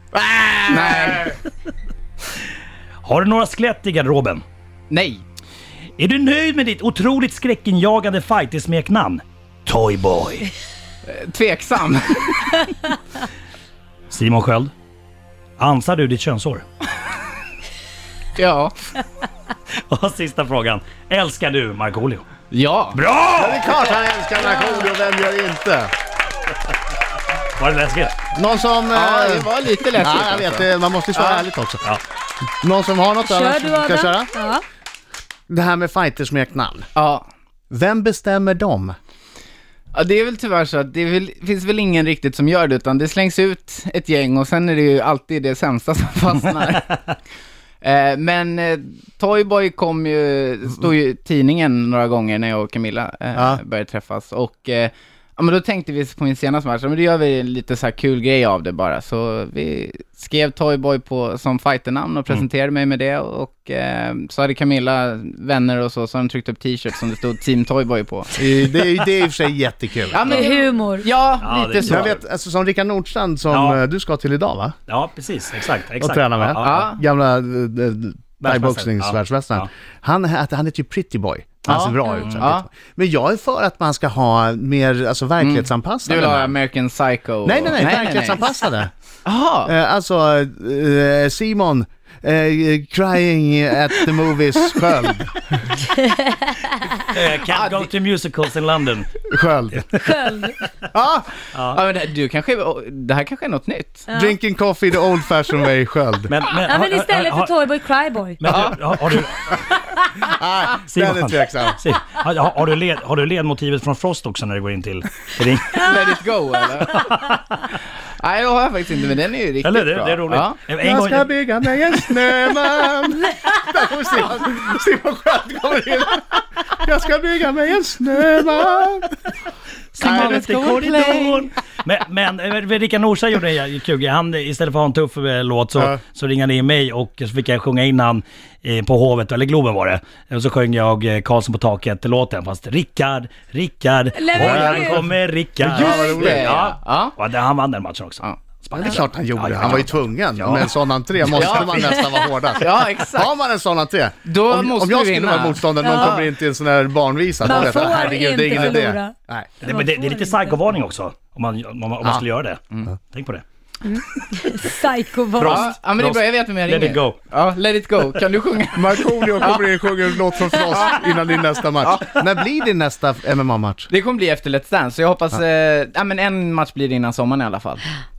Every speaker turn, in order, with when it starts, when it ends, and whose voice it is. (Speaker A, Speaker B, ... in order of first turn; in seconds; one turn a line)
Speaker A: 0.1-1.4
Speaker B: 3.0-4.4
Speaker A: 4.9-5.2
Speaker B: 6.0-10.5
Speaker A: 11.1-12.9
Speaker B: 14.1-14.7
Speaker B: 15.6-16.6
Speaker A: 18.4-18.8
Speaker B: 19.7-22.2
Speaker A: 22.5-23.0
Speaker B: 22.9-23.7
Speaker C: 23.4-25.9
Speaker D: 24.4-24.9
Speaker B: 27.6-28.2
Speaker C: 28.3-31.8
Speaker A: 28.9-31.4
Speaker C: 32.6-34.3
Speaker D: 33.2-34.6
Speaker C: 35.5-36.9
Speaker A: 37.0-37.3
Speaker C: 37.7-39.0
Speaker A: 39.9-47.1
Speaker A: 47.8-68.4
Speaker C: 68.3-70.2
Speaker A: 70.1-72.1
Speaker D: 70.2-71.1
Speaker B: 71.4-72.2
Speaker C: 71.8-74.8
Speaker B: 73.5-73.8
Speaker B: 74.9-76.9
Speaker C: 76.0-86.5
Speaker A: 76.6-77.0
Speaker B: 78.4-79.7
Speaker A: 81.7-82.7
Speaker A: 85.4-88.6
Speaker C: 87.4-88.9
Speaker A: 89.2-89.7
Speaker C: 89.7-95.8
Speaker D: 95.9-97.0
Speaker B: 97.1-99.1
Speaker A: 97.3-97.9
Speaker C: 99.3-99.8
Speaker D: 99.9-100.6
Speaker C: 100.9-101.3
Speaker B: 101.5-101.8
Speaker A: 101.7-104.1
Speaker D: 104.1-104.3
Speaker C: 104.1-106.3
Speaker B: 106.3-107.5
Speaker D: 106.6-108.5
Speaker B: 108.4-109.7
Speaker A: 108.5-108.9
Speaker D: 109.7-110.3
Speaker C: 110.2-111.8
Speaker B: 110.8-115.8
Speaker A: 115.8-117.0
Speaker B: 116.8-117.7
Speaker A: 118.2-120.6
Speaker B: 119.6-121.3
Speaker C: 120.8-129.2
Speaker B: 129.9-152.0
Speaker C: 130.0-131.3
Speaker A: 130.0-131.3
Speaker D: 144.1-145.1
Speaker C: 144.3-145.0
Speaker C: 145.6-146.6
Speaker A: 145.6-147.1
Speaker D: 145.8-146.2
Speaker A: 148.2-149.0
Speaker C: 148.7-159.5
Speaker A: 151.3-153.3
Speaker A: 154.2-156.3
Speaker D: 155.8-156.2
Speaker D: 157.4-160.6
Speaker A: 157.5-157.9
Speaker B: 159.6-163.4
Speaker D: 163.8-165.6
Speaker B: 165.4-167.2
Speaker A: 165.4-171.1
Speaker C: 168.7-173.9
Speaker A: 171.8-172.2
Speaker A: 173.9-177.9